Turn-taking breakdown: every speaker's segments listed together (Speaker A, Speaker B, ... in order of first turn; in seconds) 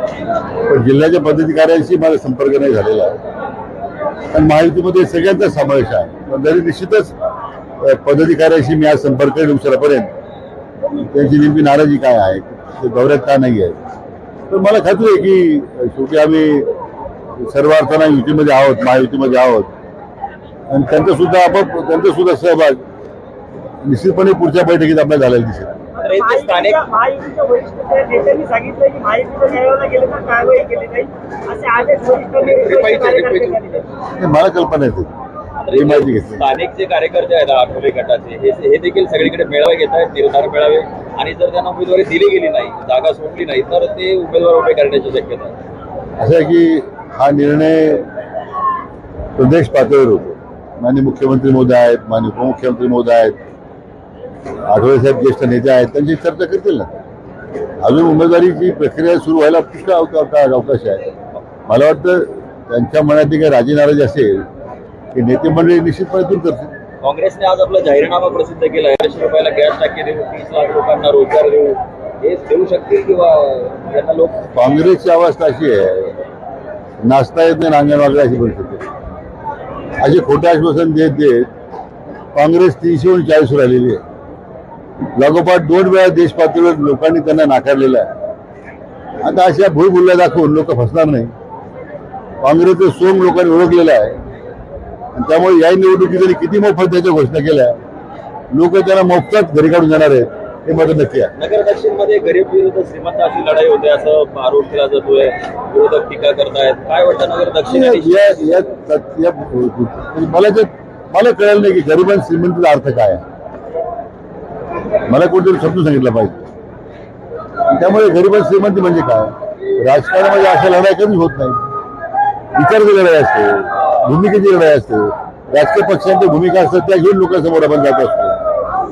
Speaker A: 0.7-3.2, 4.3-7.1, 7.8-10.1, 11.0-13.8, 14.5-16.7, 17.4-19.7, 20.7-22.8, 23.8-25.7, 34.1-35.1, 35.7-36.5, 46.2-48.1, 49.4-53.4, 54.6-56.9, 57.8-61.1, 61.6-64.4, 65.1-66.7, 74.5-76.2, 77.0-78.8, 80.0-81.5, 82.3-84.0, 85.2-88.1, 89.2-91.3, 92.4-94.2, 95.1-97.8, 98.5-101.3, 107.7-113.2, 115.1-116.4, 117.7-121.6, 122.5-128.4
Speaker B: 26.0-26.8, 32.4-33.9, 35.6-45.5, 67.0-74.4, 101.4-108.5
Speaker C: 27.1-30.7, 31.5-32.3